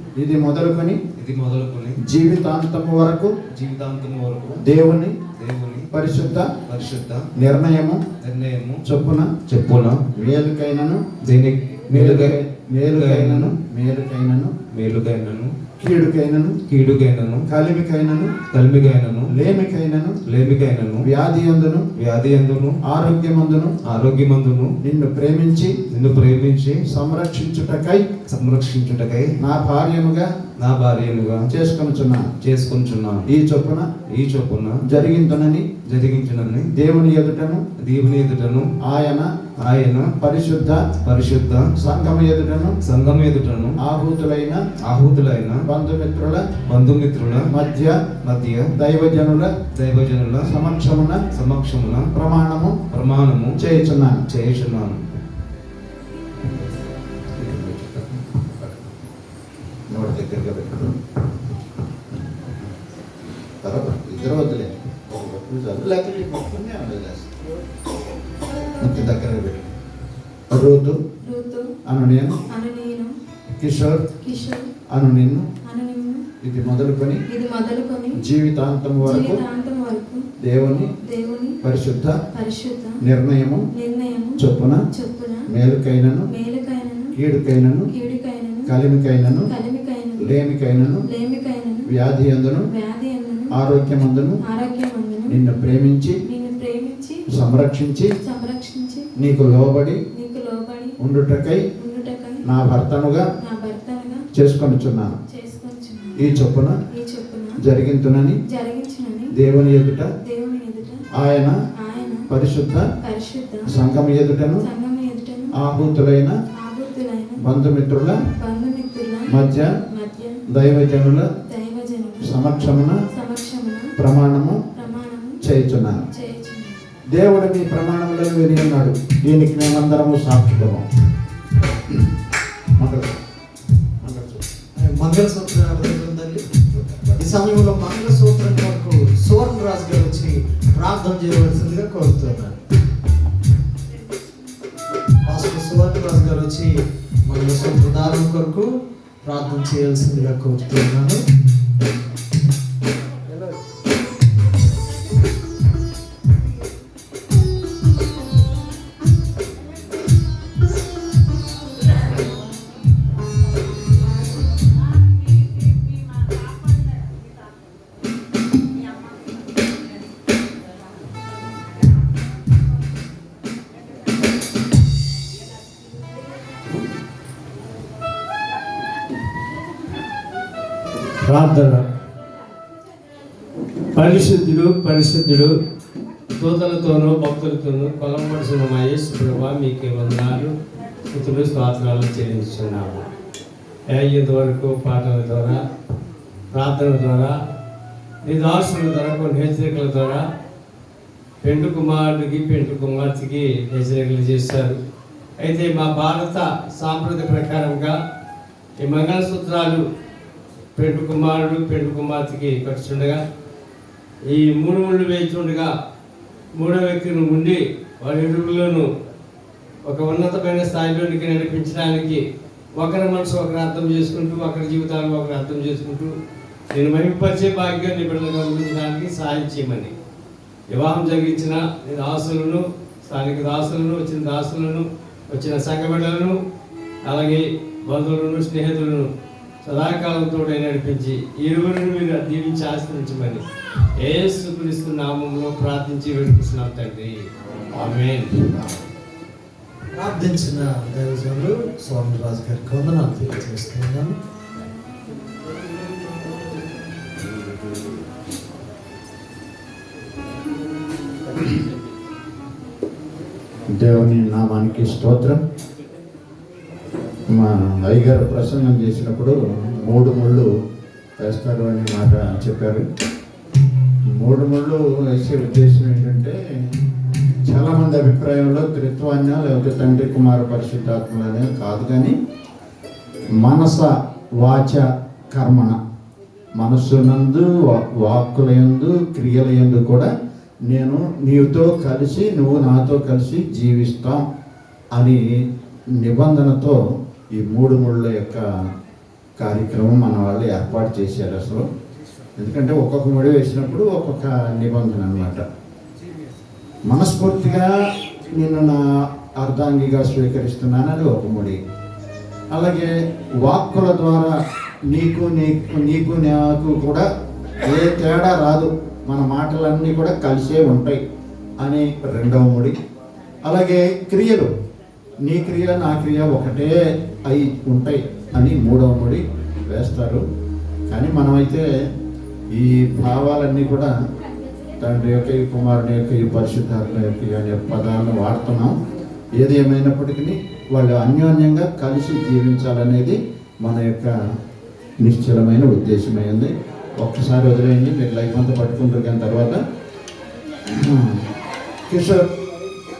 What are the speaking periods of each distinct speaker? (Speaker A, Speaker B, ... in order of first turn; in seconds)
Speaker A: 0.2-1.0, 2.0-3.3, 4.6-5.2, 5.9-6.5, 7.3-8.0, 8.8-9.3, 10.1-11.0, 11.9-14.5, 15.8-16.6, 17.5-18.4, 19.3-20.2, 21.0-21.9, 22.9-23.7, 24.8-25.7, 26.9-28.0, 29.4-30.3, 31.5-32.3, 33.3-33.9, 34.9-35.7, 36.7-37.6, 38.8-39.3, 40.2-40.9, 41.8-42.8, 43.8-44.6, 45.7-46.4, 47.5-48.0, 48.8-49.5, 50.4-51.2, 52.1-52.8, 53.6-54.2, 57.4-58.9, 59.9-61.0, 63.6-67.3, 68.8-69.7, 70.5-71.0, 71.8-72.4, 73.6-74.1, 74.9-75.5, 76.4-77.2, 78.2-79.4, 80.4-80.9, 81.6-82.2, 83.0-83.6, 84.4-84.8, 85.5-86.3, 87.1-87.9, 88.7-89.5, 90.2-91.0, 91.8-92.7, 93.5-94.4, 95.3-96.2, 97.3-98.1, 99.2-100.0, 101.0-101.6, 102.4-103.3, 104.3-105.2, 106.2-106.8, 107.6-108.4, 109.3-110.1, 111.2-111.5, 112.3-112.9, 113.7-114.7, 115.5-116.3, 117.4-118.2, 119.3-119.7, 120.5-121.2, 122.2-123.0, 124.0-124.6, 125.4-126.0, 127.1-130.9, 132.8-133.2, 134.0-134.4, 136.7-137.3, 263.7-265.4, 267.3-270.5, 271.2-272.8, 274.2-276.4, 277.4-282.1, 283.4-285.8, 286.6-290.1, 290.7-294.2, 294.9-295.2, 296.0-296.8, 297.4-298.4, 299.4-301.7, 302.4-305.4, 306.9-307.7, 308.4-308.8, 309.4-311.6, 312.5-314.3, 314.9-317.1, 317.6-321.0, 321.6-322.8, 323.4-324.5, 325.2-330.2, 330.9-331.6, 332.5-333.9, 334.8-338.8, 339.4-344.1, 345.0-349.6, 350.7-351.2, 351.9-352.3
Speaker B: 1.1-1.9, 3.5-4.6, 5.3-5.9, 6.7-7.2, 8.2-8.8, 9.5-10.0, 11.2-12.4, 12.9-13.5, 14.7-15.5, 16.7-17.4, 18.5-19.3, 20.3-21.0, 22.0-22.8, 23.9-24.7, 25.9-26.8, 28.3-29.3, 30.6-31.4, 32.4-33.2, 34.1-34.8, 35.9-36.7, 37.8-38.7, 39.6-40.1, 41.0-41.7, 42.8-43.8, 44.8-45.6, 46.7-47.5, 48.2-48.7, 49.7-50.5, 51.3-52.1, 52.9-53.5, 54.3-55.0
Speaker C: 71.2-71.7, 72.5-73.1, 74.2-74.7, 75.6-76.2, 77.3-78.2, 79.0-80.2, 81.0-81.6, 82.3-83.0, 83.7-85.5, 86.3-87.2, 87.9-88.7, 89.5-90.3, 91.1-91.9, 92.7-93.6, 94.4-95.4, 96.2-97.2, 98.2-99.1, 100.1-101.0, 101.8-102.5, 103.4-104.2, 105.3-107.6, 108.5-109.3, 110.2-111.0, 111.8-112.3, 113.0-113.7, 114.6-115.6, 116.5-117.4, 118.2-119.4, 119.9-120.4, 121.5-122.4, 123.1-123.9, 124.7-125.4, 126.0-126.8
Speaker D: 134.8-136.5, 137.2-142.6, 145.2-146.7, 147.2-148.7, 149.2-151.2, 249.9-254.2
Speaker E: 181.2-181.8, 183.9-185.5, 186.4-190.5, 191.1-193.1, 193.9-195.6, 196.5-197.3, 198.2-200.2, 201.4-204.8, 205.4-207.9, 208.8-209.8, 210.8-213.2, 214.3-215.7, 216.6-218.9, 219.9-222.2, 222.8-226.1, 226.7-229.9, 230.7-236.3, 237.1-239.1, 239.6-243.4, 244.0-247.1, 247.7-248.5